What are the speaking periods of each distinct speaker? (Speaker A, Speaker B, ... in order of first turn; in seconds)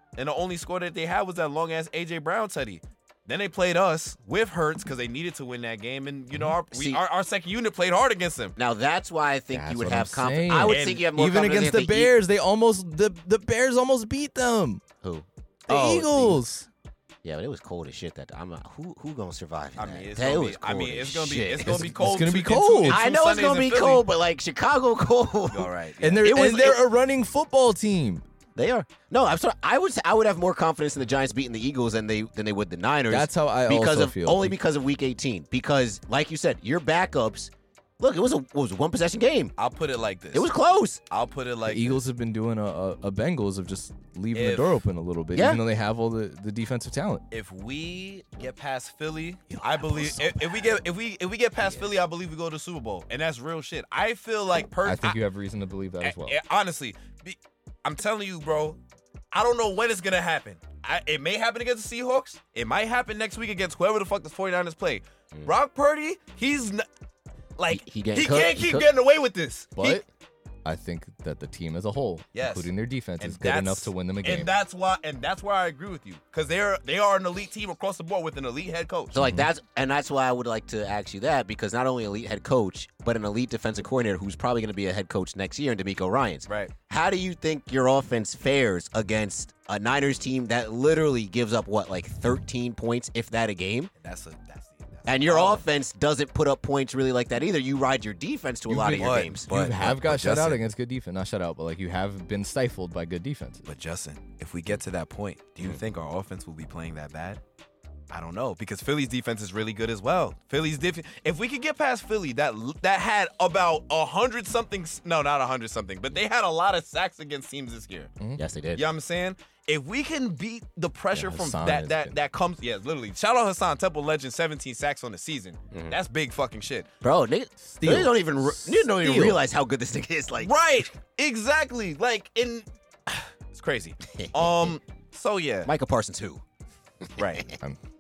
Speaker A: 0.2-8.6, 10.6-11.1, 19.8-24.0, 25.5-26.8, 39.6-40.5, 41.1-42.0, 44.3-44.8, 47.3-55.2, 56.0-58.8, 59.3-66.9, 67.6-70.0, 72.3-79.1, 86.5-86.7, 94.0-95.6, 98.8-100.6, 103.7-107.4, 108.1-118.1, 118.7-126.9, 130.4-135.7, 137.2-137.5
Speaker B: 6.7-7.0, 8.6-12.1, 15.0-16.4, 17.2-21.9, 22.8-25.7, 26.3-26.7, 28.6-39.5, 40.3-41.0, 45.3-45.6, 49.5-50.7, 51.6-51.9, 67.7-68.9, 79.1-93.9, 95.0-99.5, 118.4-118.8, 125.7-126.0, 127.0-130.5, 134.1-134.7, 135.6-136.4
Speaker C: 9.5-14.8, 15.7-16.7, 21.7-23.0, 26.0-28.2, 33.1-34.6, 41.7-47.2, 54.8-56.4, 69.8-70.0, 70.6-74.5, 79.1-79.5, 98.7-103.7, 121.1-122.2, 127.6-129.4